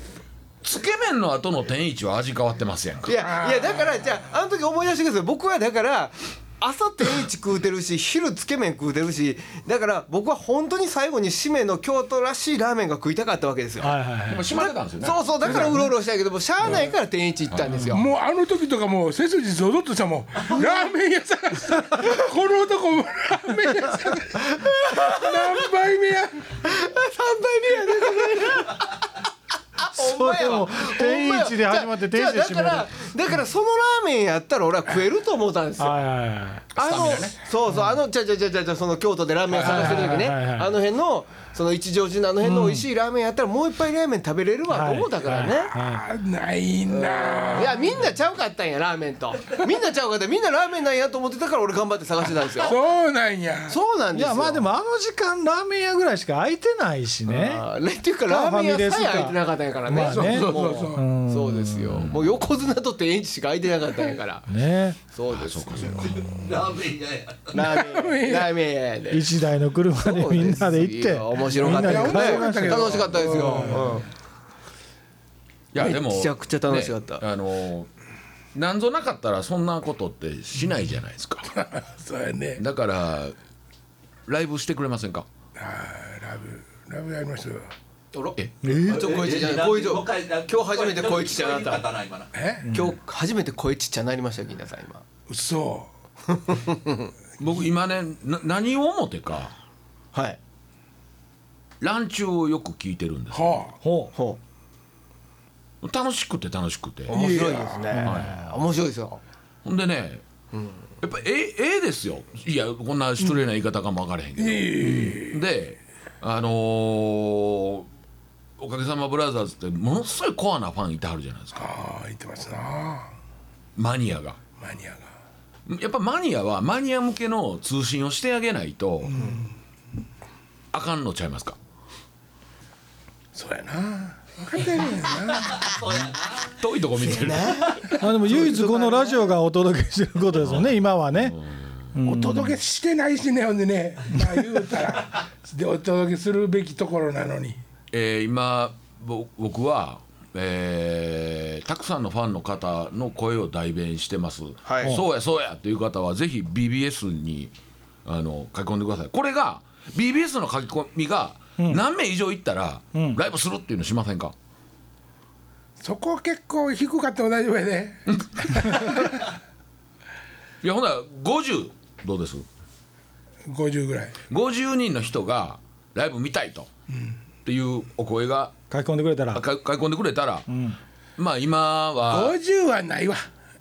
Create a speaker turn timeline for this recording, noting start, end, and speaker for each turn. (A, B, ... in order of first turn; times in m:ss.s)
0:00.6-0:03.2 A
0:03.1-0:14.0 B
0:03.1-0:04.2 C
0:13.8-0:14.6 D
0:14.3-0:15.8 A
0:14.5-0:18.0 B
0:15.4-0:15.8 C
0:17.5-0:17.9 A
0:17.7-0:18.0 D
0:17.9-0:26.6 C
0:24.4-0:25.6 B
0:26.6-0:28.9 B
0:27.8-0:28.7 C
0:29.8-0:36.0 B
0:29.9-0:32.9 D
0:35.8-0:36.7 D
0:36.7-0:37.4 A
0:36.8-0:45.7 B
0:37.7-0:38.0 D
0:39.5-0:40.8 D
0:42.4-0:42.9 D
0:44.7-0:46.1 D
0:45.8-0:48.0 C
0:46.9-0:52.8 B
0:52.6-0:53.8 C
0:53.7-0:54.7 B
0:54.1-0:57.7 D
0:57.3-1:04.5 B
0:58.3-1:02.1 D
1:00.0-1:01.1 C
1:01.9-1:02.3 A
1:04.5-1:05.0 D
1:05.1-1:06.1 B
1:05.3-1:06.2 A
1:06.0-1:07.7 E
1:06.1-1:06.6 D
1:07.5-1:09.3 B
1:07.6-1:08.6 C
1:09.1-1:14.0 D
1:10.0-1:14.1 B
1:11.6-1:14.0 C
1:15.7-1:17.9 A
1:15.8-1:17.2 B
1:18.5-1:21.5 A
1:21.4-1:22.6 C
1:22.6-1:23.4 A
1:24.3-1:25.3 A
1:25.6-1:27.7 C
1:28.1-1:31.8 B
1:28.6-1:29.2 D
1:28.8-1:32.3 E
1:32.3-1:32.7 C
1:32.6-1:33.0 D
1:32.7-1:35.0 B
1:35.3-1:35.9 C
1:36.3-1:37.1 B
1:37.4-1:39.5 A
1:40.1-1:40.4 B
1:41.8-1:43.6 A
1:43.3-1:43.8 C
1:43.8-1:44.1 D
1:44.1-1:44.4 B
1:45.8-1:47.2 A
1:47.1-1:48.0 C
1:47.1-1:49.2 B
1:48.0-1:48.5 D
1:48.0-1:48.5 A
1:49.6-1:50.2 A
1:50.5-1:50.8 B
1:51.0-1:57.9 A
1:54.4-1:55.4 C
1:58.6-2:01.7 A
2:01.6-2:03.1 C
2:03.8-2:04.4 A
2:04.6-2:05.1 C
2:05.7-2:09.2 A
2:09.0-2:09.5 C
2:09.2-2:09.4 B
2:10.7-2:11.6 A
2:13.3-2:15.8 C
2:15.3-2:16.6 E
2:16.5-2:17.9 A
2:17.0-2:19.4 B
2:18.0-2:21.4 D
2:20.4-2:21.9 A
2:21.9-2:22.6 D
2:22.0-2:27.6 C
2:27.9-2:37.5 A
2:34.6-2:35.0 B
2:38.0-2:44.4 A
2:42.9-2:43.2 D
2:45.8-2:49.2 C
2:48.1-2:49.2 A
2:50.6-2:52.5 A
2:53.5-2:54.2 C
2:54.3-2:56.7 A
2:56.9-2:57.2 C
2:57.4-2:58.6 A
2:58.7-2:59.4 D
2:59.3-3:00.5 A
3:00.5-3:00.8 D
3:01.2-3:02.4 A
3:02.1-3:03.3 C